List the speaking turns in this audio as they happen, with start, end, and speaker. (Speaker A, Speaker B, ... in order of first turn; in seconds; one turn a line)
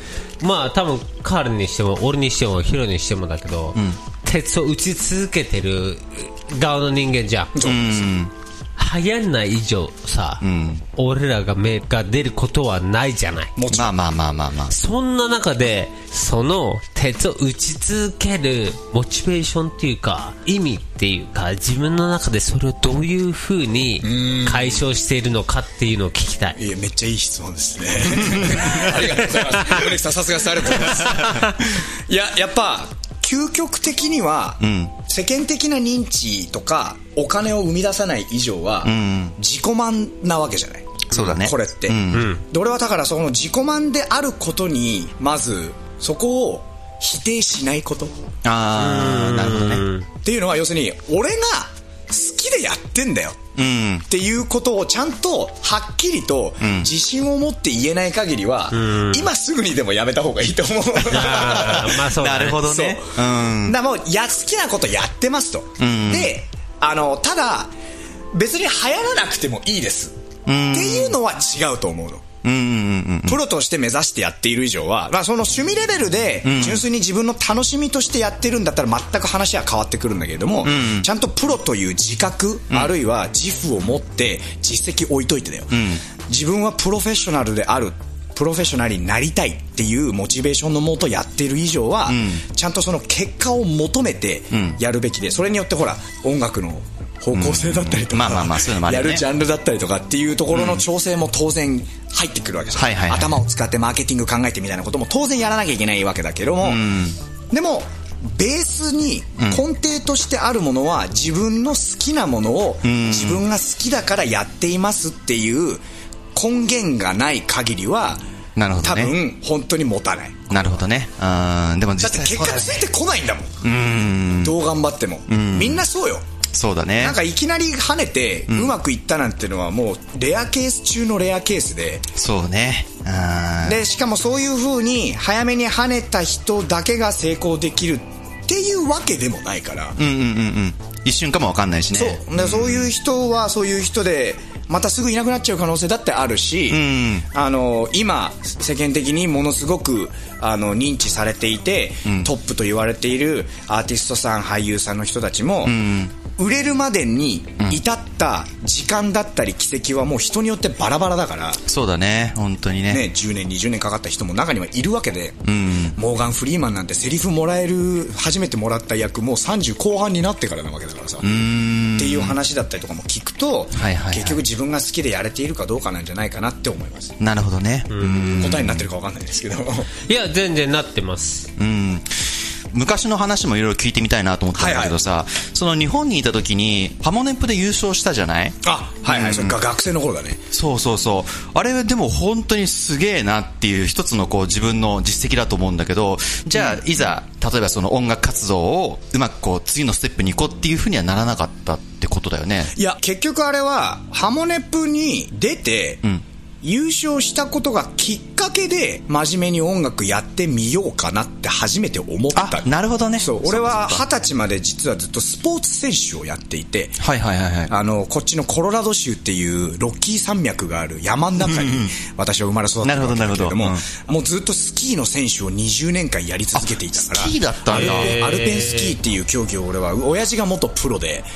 Speaker A: 0.4-7.5
Speaker B: 7.5-8.1
Speaker C: 7.6-8.3
Speaker A: 8.8-10.4
Speaker C: 10.4-10.8
Speaker A: 10.9-13.5
Speaker B: 13.6-13.9
Speaker C: 13.7-14.7
Speaker A: 14.7-26.6
Speaker B: 24.0-24.8
Speaker B: 26.6-48.1
Speaker C: 28.2-29.0
Speaker C: 30.8-31.5
Speaker A: 31.1-31.5
Speaker C: 34.6-35.0
Speaker C: 38.8-39.4
Speaker C: 41.1-42.3
Speaker A: 42.1-42.4
Speaker C: 48.4-49.8
Speaker A: 48.8-50.0
Speaker B: 50.2-53.4
Speaker C: 53.5-54.0
Speaker B: 54.1-61.9
Speaker C: 56.6-56.9
Speaker A: 58.7-59.3
Speaker A: 61.1-62.6
Speaker C: 61.1-63.8
Speaker B: 62.6-67.7
Speaker C: 65.8-66.3
Speaker B: 68.3-70.1
Speaker C: 70.5-71.2
Speaker B: 70.7-72.3
Speaker C: 72.4-73.4
Speaker B: 73.3-106.8
Speaker C: 76.4-76.8
Speaker C: 80.6-81.1
Speaker C: 85.7-86.0
Speaker C: 92.1-92.4
Speaker C: 94.5-94.8
Speaker C: 97.3-99.2
Speaker C: 100.5-100.8
Speaker C: 102.7-103.3
Speaker C: 106.6-107.2
Speaker B: 107.5-115.8
Speaker C: 112.8-113.4
Speaker B: 116.3-118.2
Speaker C: 118.5-119.1
Speaker B: 118.8-120.8
Speaker C: 120.5-122.8
Speaker B: 122.0-123.5
Speaker C: 123.6-124.5
Speaker B: 124.4-126.2
Speaker C: 125.3-125.8
Speaker C: 126.5-127.2
Speaker B: 127.0-132.1
Speaker C: 128.5-128.7
Speaker C: 132.1-133.8
Speaker B: 133.6-140.0
Speaker C: 140.0-142.9
Speaker B: 141.9-155.8
Speaker C: 146.7-147.2
Speaker C: 155.6-156.1
Speaker B: 156.3-161.6
Speaker C: 161.7-163.1
Speaker B: 162.9-165.4
Speaker C: 165.4-166.0
Speaker B: 165.9-171.3
Speaker C: 171.2-172.4
Speaker B: 171.9-177.2
Speaker C: 173.7-174.4
Speaker C: 177.2-178.9
Speaker A: 177.9-178.4
Speaker B: 178.3-179.9
Speaker A: 180.1-181.5
Speaker C: 181.6-189.6
Speaker B: 184.5-185.0
Speaker B: 188.6-190.4
Speaker C: 190.5-202.7
Speaker B: 196.5-196.8
Speaker B: 202.7-206.0
Speaker B: 206.6-217.0
Speaker C: 212.3-214.0
Speaker C: 217.0-217.7
Speaker B: 217.7-231.3
Speaker C: 221.4-221.9
Speaker C: 222.8-223.8
Speaker C: 226.5-228.2
Speaker A: 227.7-228.9